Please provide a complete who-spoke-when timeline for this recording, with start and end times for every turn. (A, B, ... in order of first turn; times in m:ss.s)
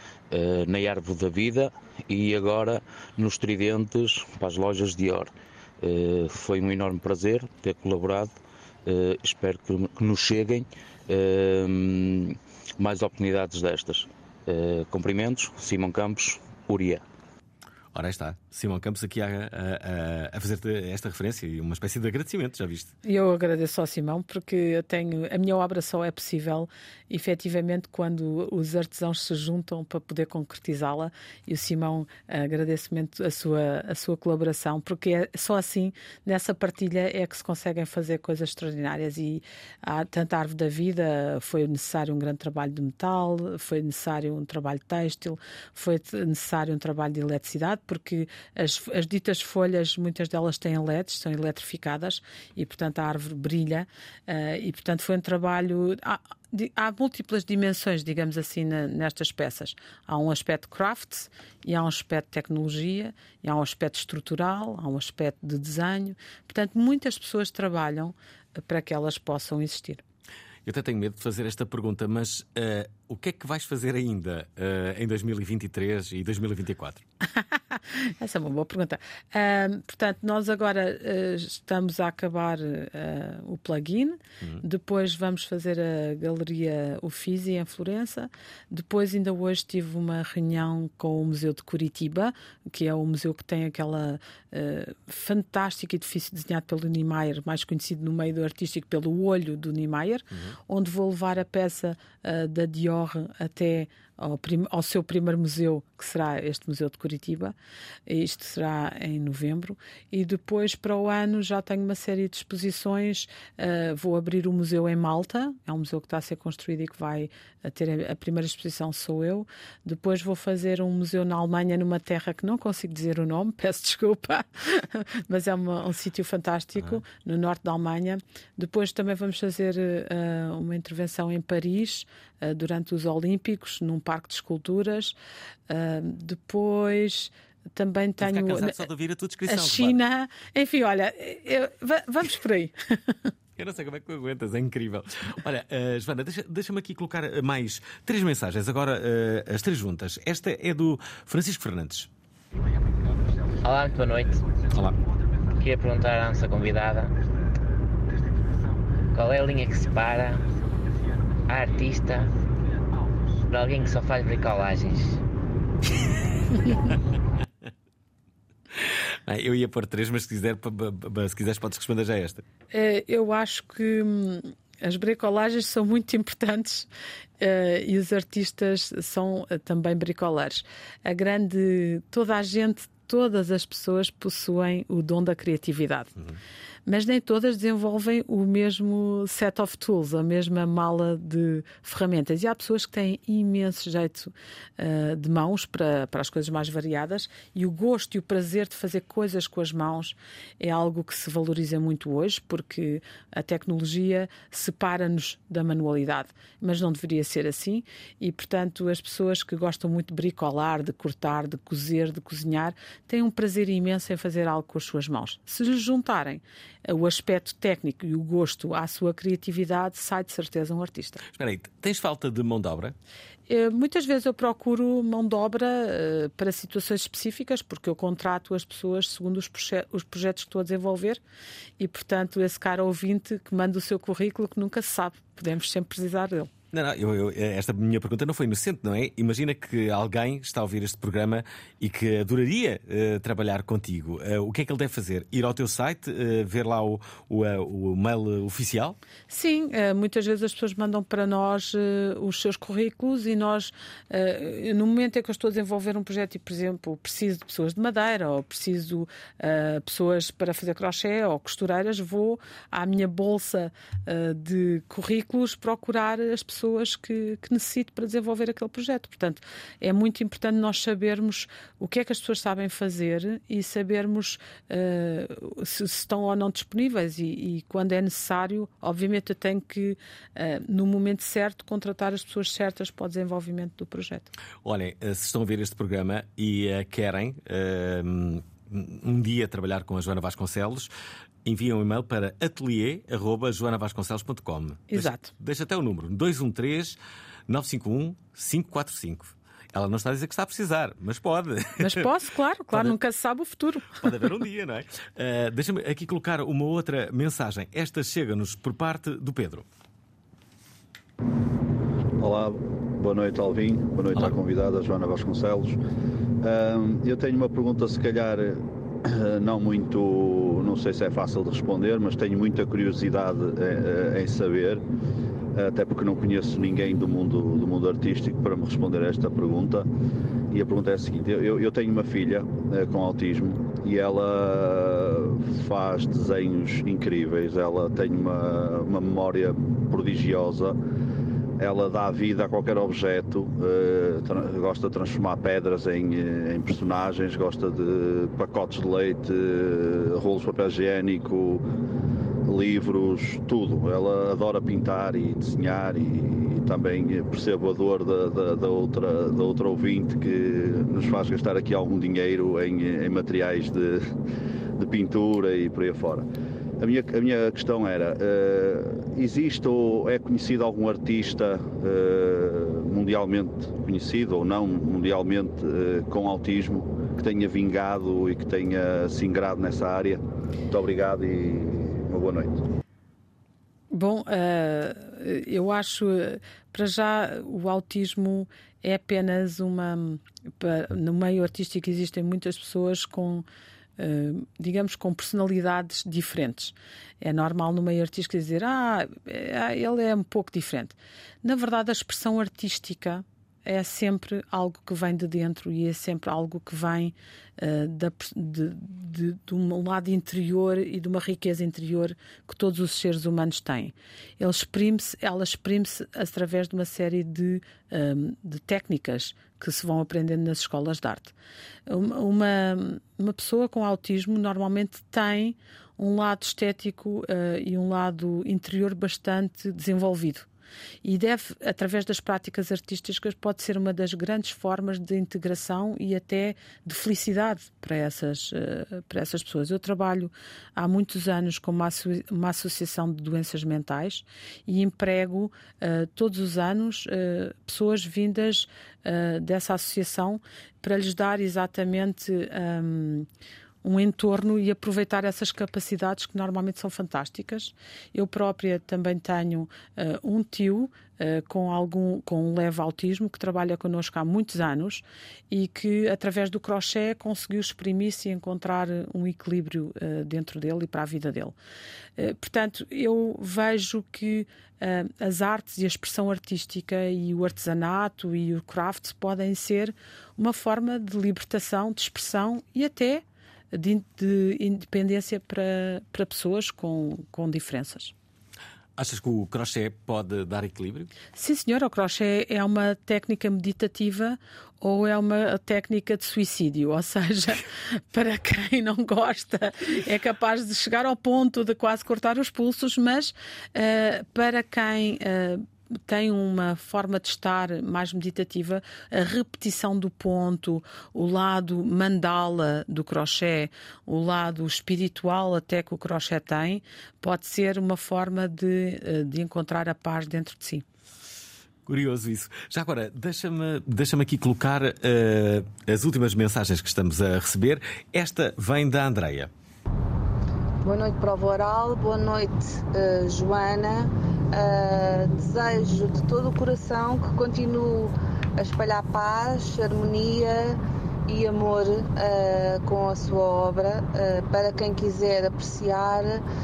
0:00.3-0:08.4 A
0:08.9-0:17.0 A
0:17.9-0:22.9 B
0:23.0-1:10.0 C
1:10.6-1:17.0 B
1:17.7-1:47.6 C
1:40.3-1:40.6 B
1:48.1-2:15.2 C
2:15.7-2:18.8 C
2:18.2-2:20.0 B
2:19.5-2:23.2 C
2:23.6-2:32.1 B
2:33.6-2:34.5 D
2:35.6-2:37.2 D
2:39.1-2:40.4 D
2:41.5-2:42.3 D
2:43.5-2:45.2 D
2:49.3-2:52.4 B
2:52.7-2:56.9 C
2:57.4-3:06.1 C
3:06.9-3:41.2 C
3:41.3-3:43.0 B
3:43.5-3:51.2 C
3:51.8-3:56.5 C
3:56.7-4:09.0 B
4:09.3-4:44.3 C
4:44.6-4:50.9 B
4:51.4-4:57.0 B
4:54.9-4:55.3 C
4:57.5-5:02.1 B
5:01.8-5:04.0 C
5:04.0-5:09.7 B
5:12.2-5:15.8 E
5:16.4-5:24.8 E
5:25.5-5:29.9 E
5:30.5-5:40.8 E
5:41.6-5:51.6 E
5:52.5-6:04.1 E
6:04.8-6:06.3 E
6:06.8-6:22.6 E
6:23.9-6:33.5 C
6:34.0-7:01.3 C
7:01.9-7:10.5 C
7:11.0-7:33.3 C
7:33.8-7:51.6 C
7:52.2-8:08.1 C
8:09.0-8:11.1 B
8:11.4-8:40.8 C
8:41.9-8:49.5 B
8:50.8-9:06.4 F